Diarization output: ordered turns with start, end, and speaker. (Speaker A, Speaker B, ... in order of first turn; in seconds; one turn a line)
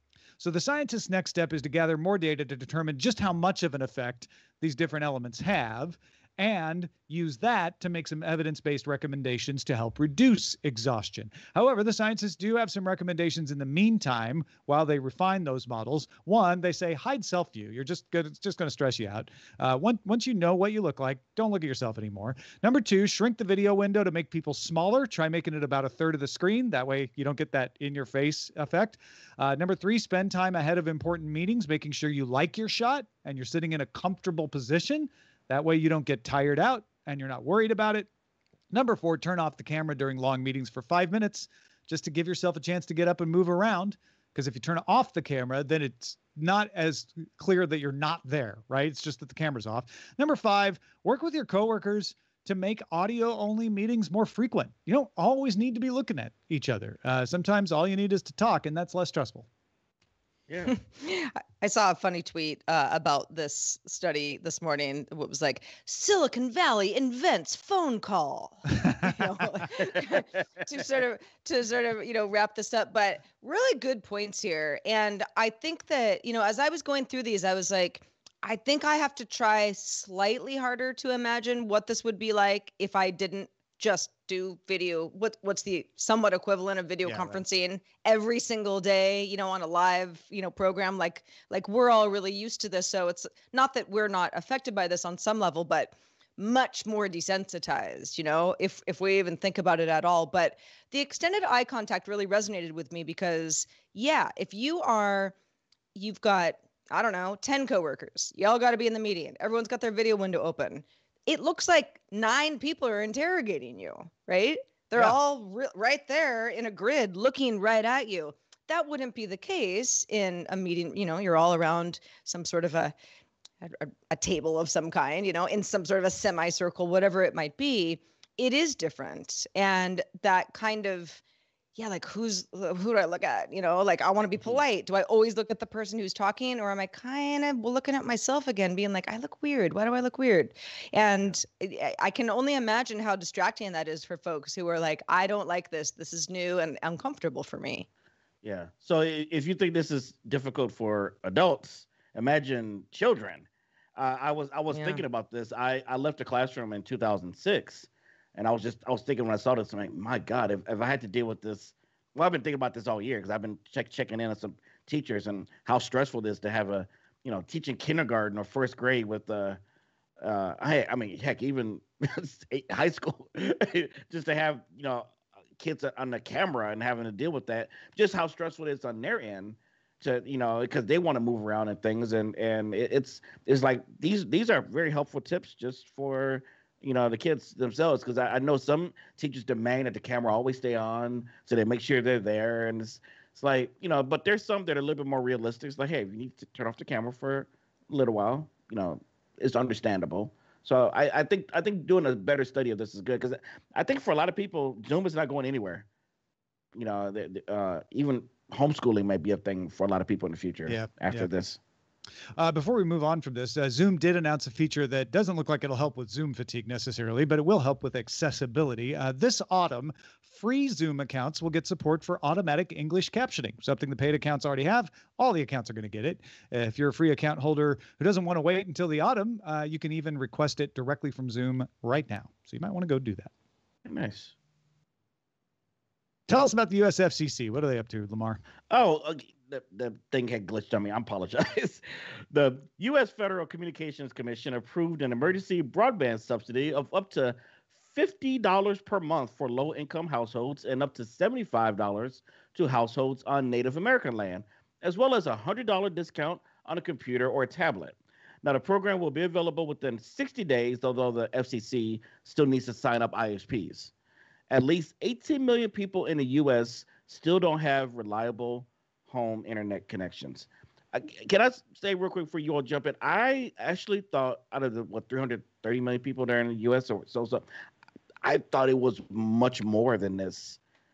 Speaker A: 0.4-38.1
Speaker A: 38.7-59.5
Speaker B: 60.5-60.7
Speaker C: 60.6-105.3
Speaker A: 87.0-87.4
Speaker C: 105.9-122.9
Speaker C: 123.6-131.2
Speaker C: 131.8-147.9
Speaker B: 134.4-134.6
Speaker B: 148.4-169.6
Speaker C: 154.7-155.0
Speaker B: 170.2-205.9
Speaker B: 206.8-211.6
Speaker A: 210.7-211.3
Speaker A: 212.4-233.3
Speaker B: 233.9-234.3
Speaker A: 236.3-238.4
Speaker B: 238.7-263.9
Speaker B: 264.5-277.4
Speaker B: 278.2-280.6